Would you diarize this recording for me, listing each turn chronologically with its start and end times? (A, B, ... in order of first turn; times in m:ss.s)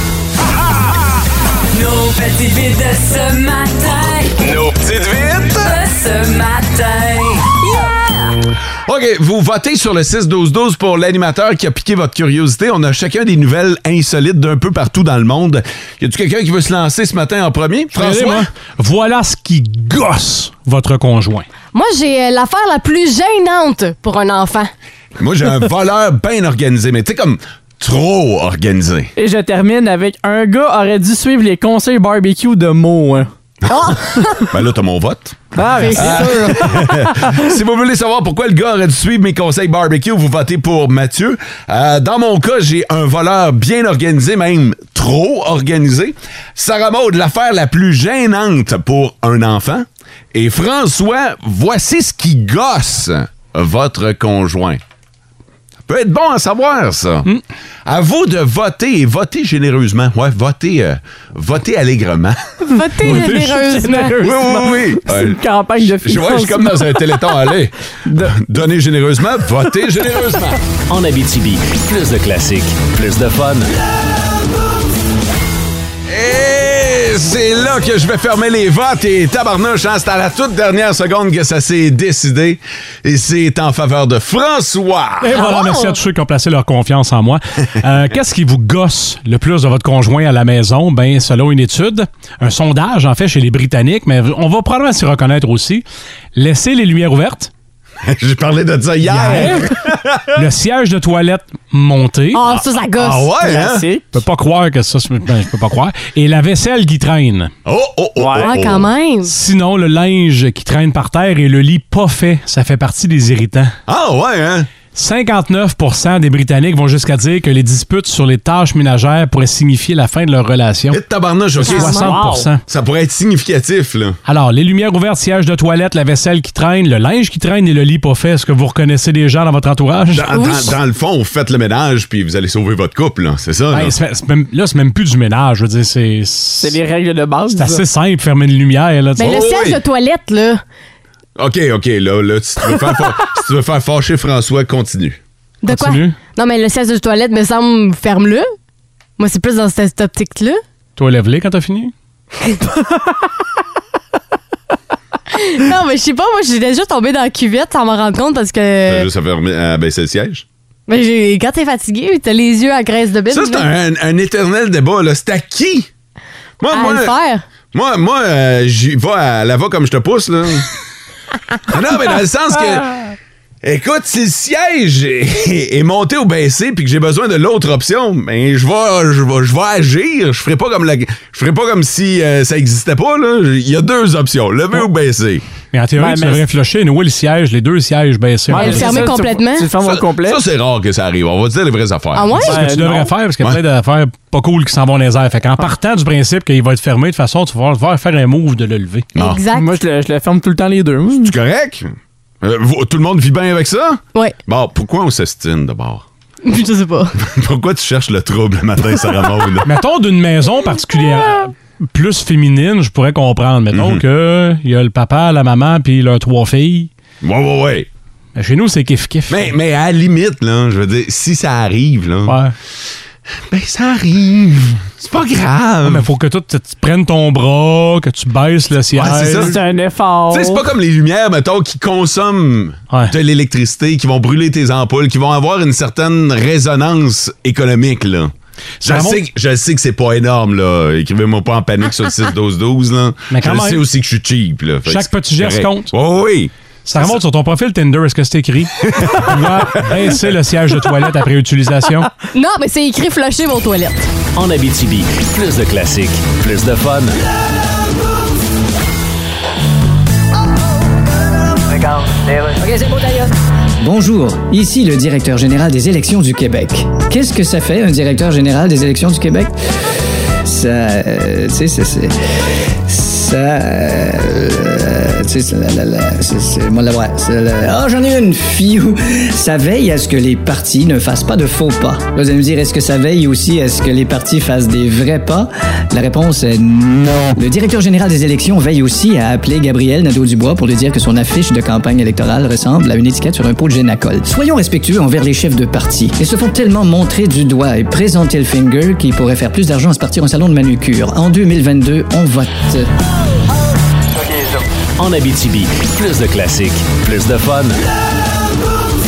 0:01.7-0:04.4 A
0:04.4-0:05.8 B
0:05.6-0:08.2 A
0:08.9-0:18.5 B
0:17.9-0:21.5 C
0:21.7-0:24.7 D
0:25.2-0:29.1 B
0:29.2-0:33.3 E
0:33.7-0:34.5 D
0:34.5-0:54.8 B
0:35.6-0:37.5 E
0:35.8-0:36.6 D
0:55.9-0:57.3 B
0:57.9-1:02.4 B
1:02.7-1:04.2 D
1:03.0-1:07.4 E
1:03.0-1:03.8 C
1:04.2-1:10.6 B
1:08.0-1:08.4 E
1:10.9-1:13.7 F
1:16.1-1:25.4 B
1:25.2-1:35.8 C
1:25.4-1:26.0 D
1:36.4-1:37.5 C
1:38.0-1:40.4 B
1:39.1-1:39.7 C
1:40.4-1:42.4 C
1:42.3-1:43.3 D
1:43.0-1:43.8 B
1:43.4-1:44.2 E
1:44.1-1:47.5 C
1:47.7-1:48.9 B
1:48.2-1:48.6 E
1:48.4-1:49.3 D
1:49.3-1:53.7 C
1:53.9-1:54.7 B
1:54.9-2:01.0 C
2:00.9-2:04.2 B
2:01.6-2:02.6 C
2:01.7-2:02.2 D
2:02.0-2:02.5 E
2:04.3-2:10.3 C
2:10.1-2:14.0 B
2:10.3-2:10.8 D
2:13.7-2:16.8 C
2:16.6-2:17.8 E
2:17.5-2:19.3 C
2:19.2-2:20.6 D
2:19.2-2:19.8 B
2:21.4-2:25.2 B
2:25.6-2:28.5 D
2:25.7-2:26.2 C
2:29.2-2:30.6 D
2:31.0-2:31.9 C
2:35.3-2:39.1 D
2:38.9-2:40.4 B
2:40.9-2:43.7 D
2:43.3-2:45.9 B
2:46.6-2:47.2 B
2:46.7-2:47.4 D
2:47.7-2:50.7 B
2:51.7-2:53.1 B
2:53.6-3:05.4 B
3:05.7-3:09.1 C
3:06.0-3:06.5 E
3:08.5-3:10.4 E
3:08.5-3:09.7 D
3:09.8-3:12.5 B
3:12.2-3:12.6 D
3:12.4-3:13.1 E
3:12.4-3:19.1 C
3:19.2-3:19.4 B
3:19.2-3:19.7 D
3:19.5-3:21.3 E
3:21.2-3:26.0 B
3:26.4-3:27.2 D
3:27.2-3:29.7 B
3:29.6-3:36.9 C
3:33.7-3:34.0 B
3:37.2-3:37.9 B
3:38.4-3:39.5 C
3:39.3-3:42.4 B
3:42.3-3:42.5 C
3:43.5-3:46.1 B
3:45.8-3:49.6 C
3:48.9-3:49.6 B
3:49.0-3:50.6 E
3:50.3-4:07.2 B
3:58.8-3:59.2 C
4:03.3-4:03.8 C
4:04.9-4:05.9 C
4:06.9-4:12.1 C
4:08.8-4:10.1 B
4:12.3-4:14.1 D
4:14.4-4:17.2 F
4:22.8-4:23.2 A
4:23.8-4:29.6 G
4:30.4-4:32.1 G
4:32.8-5:02.9 G
5:05.0-5:07.8 F